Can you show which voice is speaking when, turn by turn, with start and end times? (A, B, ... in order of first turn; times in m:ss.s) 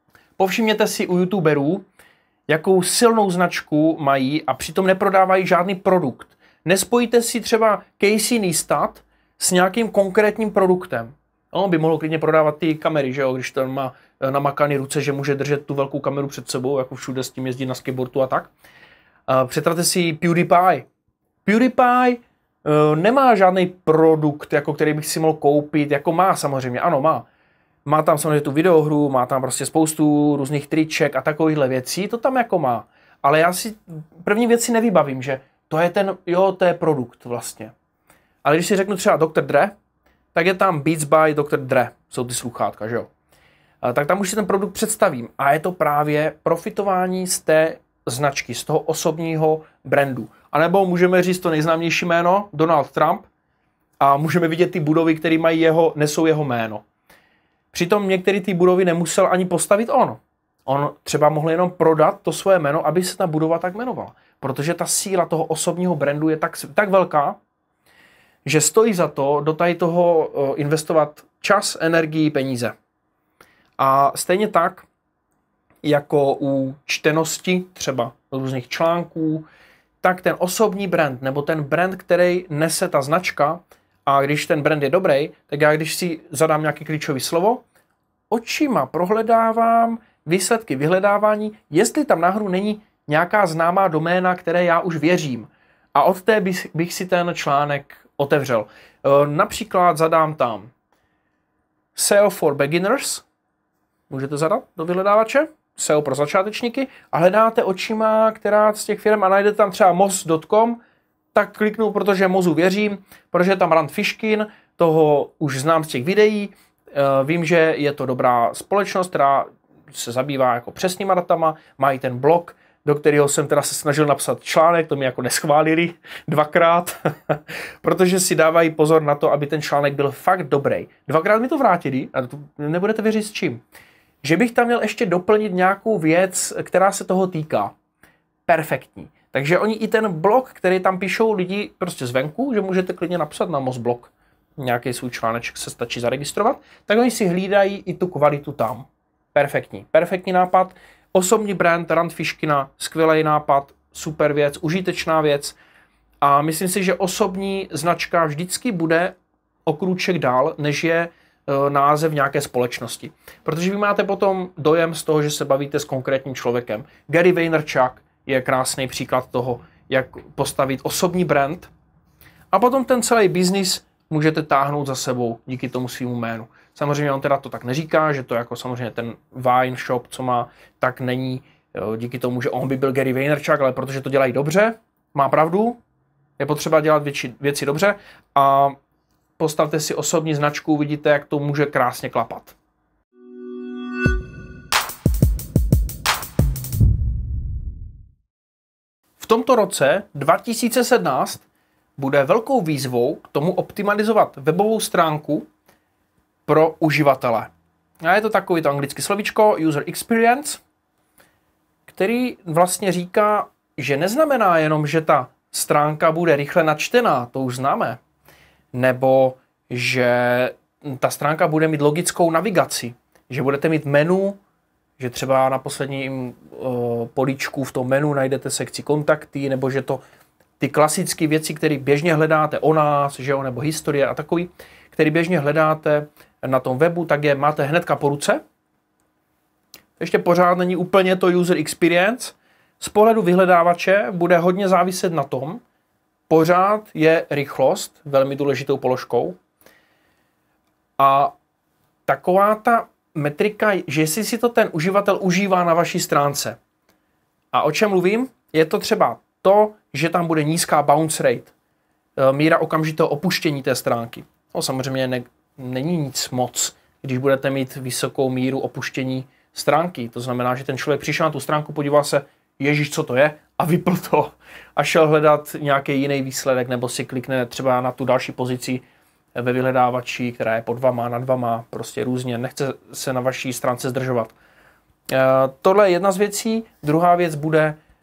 0:00.4-0:01.8 A
0:02.5-0:18.5 A
0:19.3-0:20.9 A
0:21.4-0:27.2 A
0:27.8-0:37.7 A
0:38.4-0:39.7 A
0:40.3-0:43.1 A
0:43.8-0:53.3 A
0:54.0-0:56.8 A
0:57.7-1:07.4 A
1:08.4-1:12.7 A
1:13.8-1:14.9 A
1:15.8-1:19.4 A
1:20.0-1:27.6 A
1:28.3-1:40.7 A
1:41.9-1:43.2 A
1:44.1-1:50.8 A
1:51.3-2:13.6 A
2:14.2-2:17.7 A
2:18.5-2:35.6 A
2:36.2-2:51.7 A
2:52.5-3:05.8 A
3:06.4-3:08.8 A
3:09.4-3:12.6 A
3:19.2-3:21.4 A
3:22.0-3:25.5 A
3:26.4-3:27.5 A
3:28.0-3:30.6 A
3:31.9-3:38.0 A
3:38.7-3:44.4 A
3:45.0-3:50.0 A
3:50.6-3:58.4 A
4:00.0-4:05.6 A
4:06.3-4:09.4 A
4:11.0-4:11.4 A
4:12.1-4:16.6 A
4:17.5-4:21.5 A
4:22.2-4:38.8 A
4:39.3-4:44.3 A
4:45.1-4:47.8 A